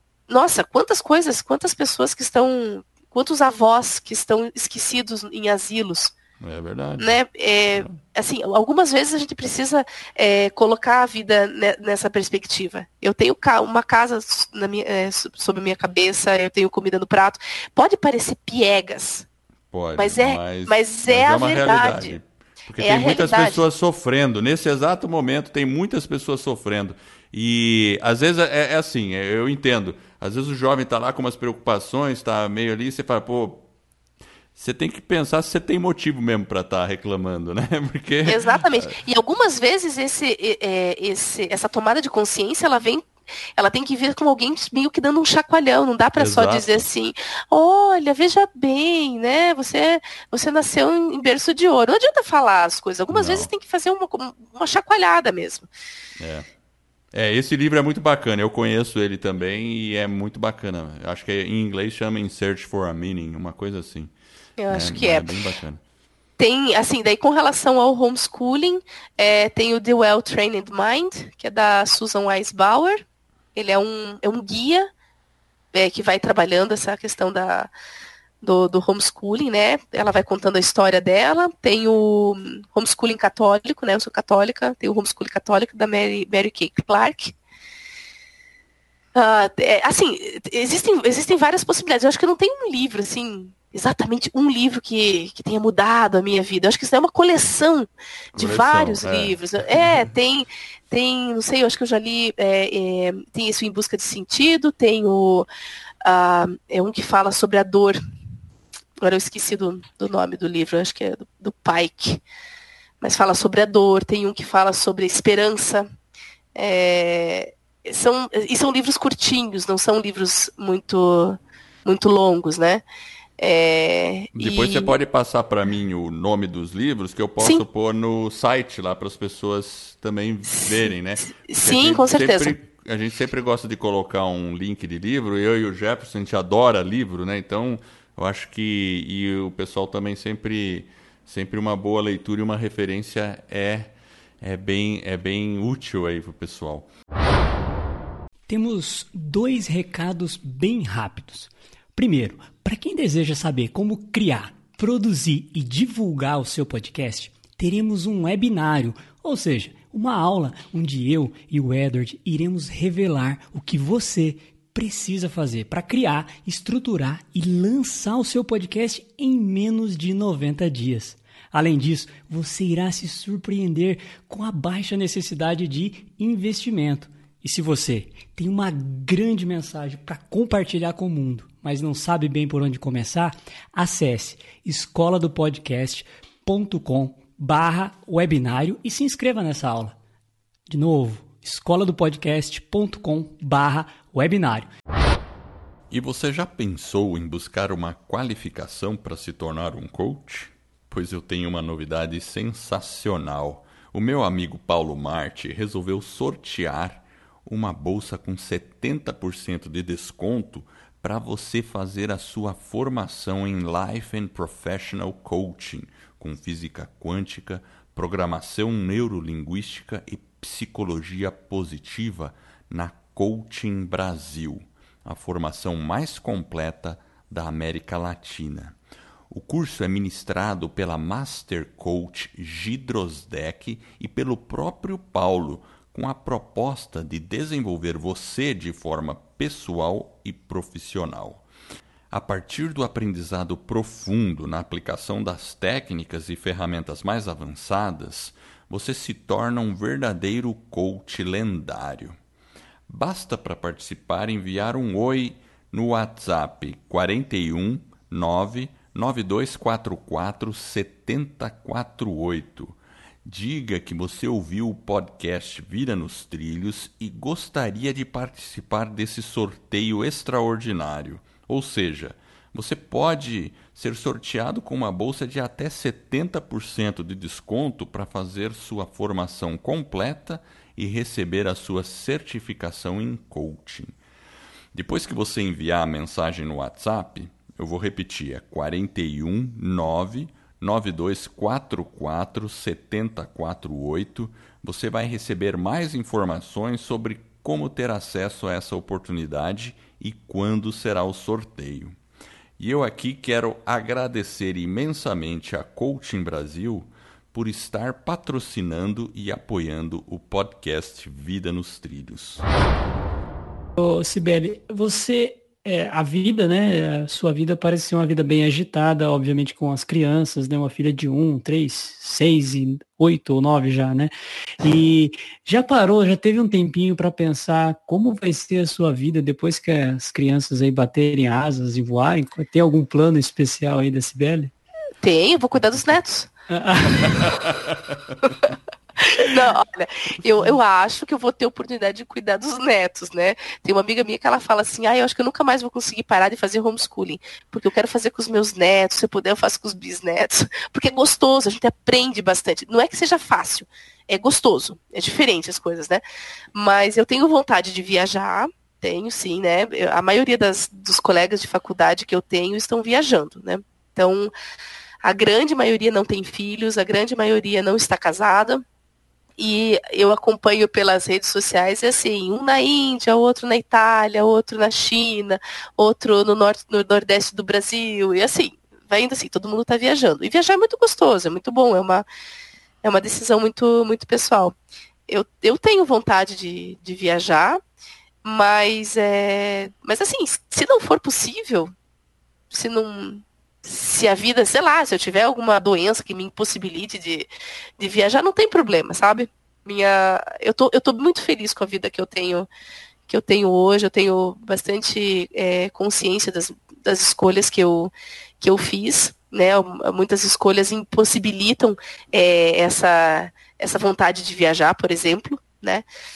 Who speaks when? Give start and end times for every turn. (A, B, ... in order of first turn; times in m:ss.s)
0:00.3-0:06.1 A
0:06.4-0:07.2 B
0:07.0-0:19.2 A
0:19.7-0:33.6 B
0:20.0-0:22.1 A
0:22.8-0:23.6 A
0:34.6-0:38.9 B
0:38.2-0:55.7 A
0:46.2-0:46.8 B
0:53.1-0:53.5 B
0:56.2-0:56.4 B
0:57.1-1:04.1 B
1:04.6-1:05.3 A
1:04.7-1:05.8 B
1:06.4-1:13.0 A
1:13.5-1:14.9 A
1:15.7-1:17.7 A
1:18.4-1:27.3 A
1:29.1-1:45.5 A
1:38.4-1:39.4 B
1:46.0-1:48.0 A
1:49.0-1:52.2 A
1:53.0-1:55.8 A
1:56.5-2:02.8 A
2:03.4-2:05.0 A
2:04.3-2:26.9 B
2:10.5-2:12.5 A
2:28.5-3:10.0 C
3:10.7-3:14.7 C
3:15.9-3:48.8 B
3:49.3-4:01.4 B
4:02.1-4:12.2 B
4:12.9-4:43.9 B
4:44.7-5:02.0 B
5:02.6-5:12.4 B
5:13.8-5:34.5 C
5:35.0-5:36.3 A
5:36.5-5:37.4 C
5:37.0-5:37.9 B
5:39.1-5:56.0 A
5:56.5-6:04.3 A
6:05.0-6:08.6 A
6:09.4-6:22.0 A
6:22.8-6:24.5 A
6:25.1-6:27.6 A
6:28.2-6:31.7 A
6:32.5-6:42.5 A
6:43.1-6:55.8 A